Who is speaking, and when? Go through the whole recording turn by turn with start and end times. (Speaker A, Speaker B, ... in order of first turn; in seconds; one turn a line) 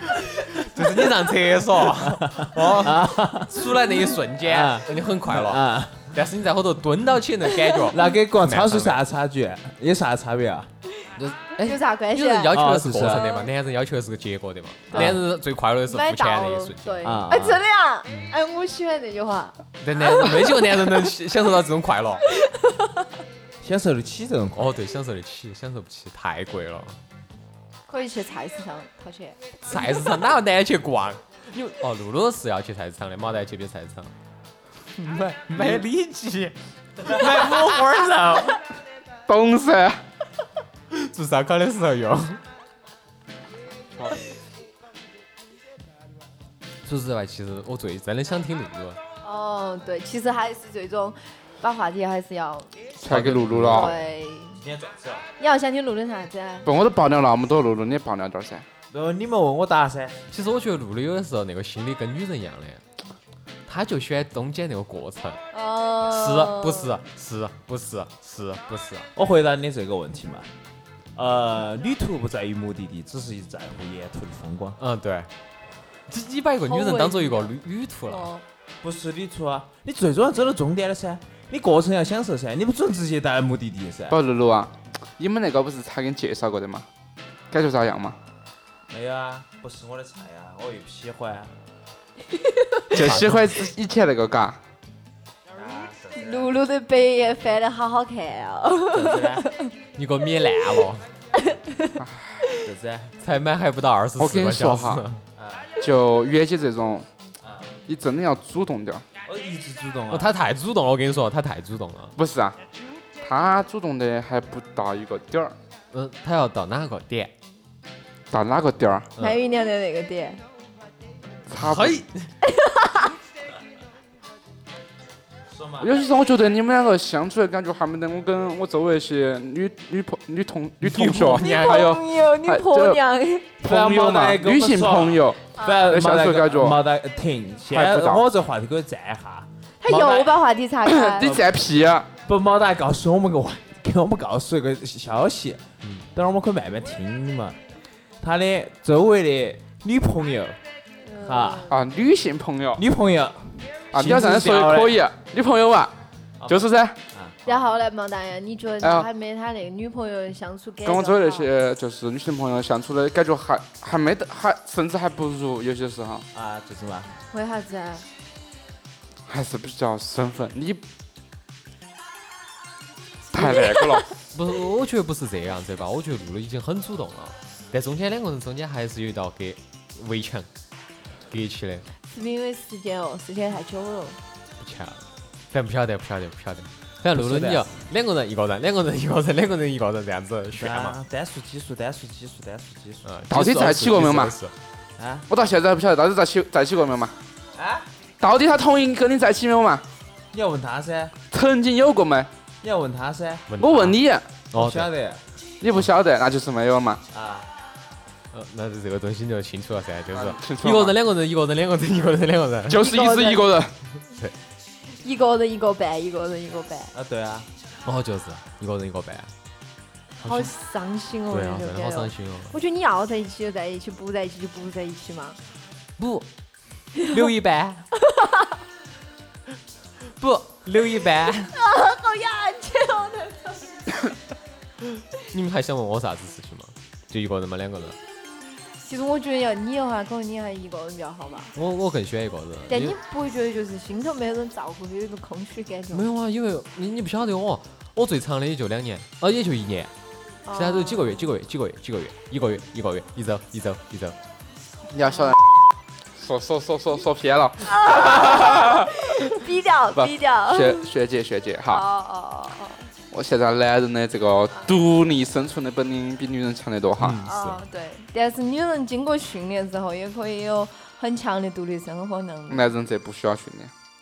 Speaker A: 0.4-9.0
Speaker B: 2.0-6.2
Speaker B: 7.9-10.7
Speaker A: 11.2-17.2
Speaker C: 11.6-13.5
Speaker B: 12.5-13.3
Speaker C: 14.9-15.3
Speaker B: 14.9-15.2
Speaker C: 15.9-21.0
Speaker B: 17.0-17.6
Speaker A: 19.8-22.2
Speaker C: 22.4-23.0
Speaker B: 23.6-24.8
Speaker A: 24.6-27.0
Speaker C: 27.9-30.1
Speaker A: 29.7-34.1
Speaker A: 35.0-38.6
Speaker D: 39.3-40.0
Speaker A: 40.9-42.4
Speaker A: 46.8-49.0
Speaker C: 49.2-52.8
Speaker D: 53.0-54.0
Speaker A: 53.1-54.0
Speaker C: 53.6-54.6
Speaker B: 54.6-55.3
Speaker C: 55.4-56.7
Speaker D: 56.6-58.7
Speaker B: 58.9-60.2
Speaker A: 60.3-62.8
Speaker A: 63.7-65.4
Speaker C: 65.5-67.0
Speaker A: 66.1-69.1
Speaker B: 69.2-70.5
Speaker B: 71.2-74.8
Speaker A: 74.8-75.3
Speaker A: 76.1-78.3
Speaker C: 76.7-77.5
Speaker C: 78.1-78.4
Speaker B: 78.8-84.2
Speaker D: 84.1-86.9
Speaker D: 87.5-88.2
Speaker B: 88.9-91.5
Speaker C: 92.5-92.9
Speaker D: 92.9-94.6
Speaker A: 92.9-93.5
Speaker B: 95.5-96.5
Speaker C: 96.2-99.7
Speaker B: 98.9-99.5
Speaker A: 100.0-101.0
Speaker C: 101.4-102.6
Speaker D: 102.0-102.3
Speaker B: 102.6-103.1
Speaker A: 103.2-105.2
Speaker D: 104.2-105.1
Speaker B: 105.4-105.7
Speaker D: 105.8-107.1
Speaker B: 107.4-107.7
Speaker D: 107.9-109.0
Speaker B: 109.2-110.3
Speaker A: 110.1-112.2
Speaker D: 112.2-112.6
Speaker D: 113.2-115.5
Speaker A: 115.9-117.3
Speaker D: 118.3-119.1
Speaker C: 119.2-120.4
Speaker D: 121.5-122.0
Speaker A: 121.6-122.3
Speaker C: 122.4-123.1
Speaker B: 125.5-125.9
Speaker D: 125.8-133.0
Speaker A: 130.8-132.0
Speaker C: 131.3-133.5
Speaker B: 133.6-140.4
Speaker D: 133.6-136.8
Speaker C: 135.6-135.9
Speaker D: 137.7-138.2
Speaker C: 139.8-141.3
Speaker D: 140.8-142.1
Speaker B: 141.2-141.5
Speaker B: 142.2-147.6
Speaker B: 148.2-150.6
Speaker C: 151.1-151.8
Speaker B: 151.2-151.7
Speaker D: 151.7-152.8
Speaker B: 152.8-155.0
Speaker D: 153.9-155.9
Speaker B: 156.4-157.6
Speaker D: 156.5-157.0
Speaker C: 157.5-161.5
Speaker D: 158.8-159.1
Speaker D: 160.8-166.3
Speaker B: 166.3-167.1
Speaker C: 167.3-168.1
Speaker D: 169.3-170.8
Speaker D: 173.3-174.0
Speaker C: 173.3-174.1
Speaker A: 174.3-180.5
Speaker A: 181.3-181.9
Speaker C: 182.1-184.2
Speaker A: 184.6-191.0
Speaker B: 187.1-187.7
Speaker B: 190.6-193.1
Speaker A: 193.1-194.5
Speaker D: 193.3-194.3
Speaker B: 195.0-195.3
Speaker D: 195.3-197.2
Speaker B: 197.6-197.9
Speaker D: 198.2-199.8
Speaker B: 200.3-201.1
Speaker D: 201.3-202.3
Speaker B: 202.6-203.5
Speaker A: 203.5-204.0
Speaker D: 203.6-204.3
Speaker A: 204.5-204.9
Speaker B: 204.5-205.2
Speaker D: 205.6-207.0
Speaker B: 207.1-207.5
Speaker A: 208.3-212.8
Speaker D: 210.1-210.9
Speaker D: 212.7-213.7
Speaker C: 212.8-213.5
Speaker C: 215.0-216.9
Speaker B: 216.9-217.5
Speaker A: 217.8-219.3
Speaker C: 220.2-225.4
Speaker A: 220.2-220.5
Speaker A: 221.3-222.5
Speaker A: 226.0-226.3
Speaker C: 227.0-227.2
Speaker A: 227.0-227.8
Speaker C: 227.9-228.5
Speaker A: 230.2-231.5
Speaker C: 231.5-234.0
Speaker A: 235.2-238.0
Speaker C: 238.8-241.5
Speaker A: 241.6-243.0
Speaker C: 242.7-246.1
Speaker A: 245.9-249.9
Speaker C: 250.5-251.3
Speaker A: 250.6-254.2
Speaker D: 254.9-255.4
Speaker D: 256.2-259.0
Speaker C: 257.6-260.9
Speaker D: 259.9-261.8
Speaker C: 261.7-262.9
Speaker D: 263.1-267.2
Speaker A: 267.0-267.6
Speaker C: 267.2-272.7
Speaker D: 272.5-273.7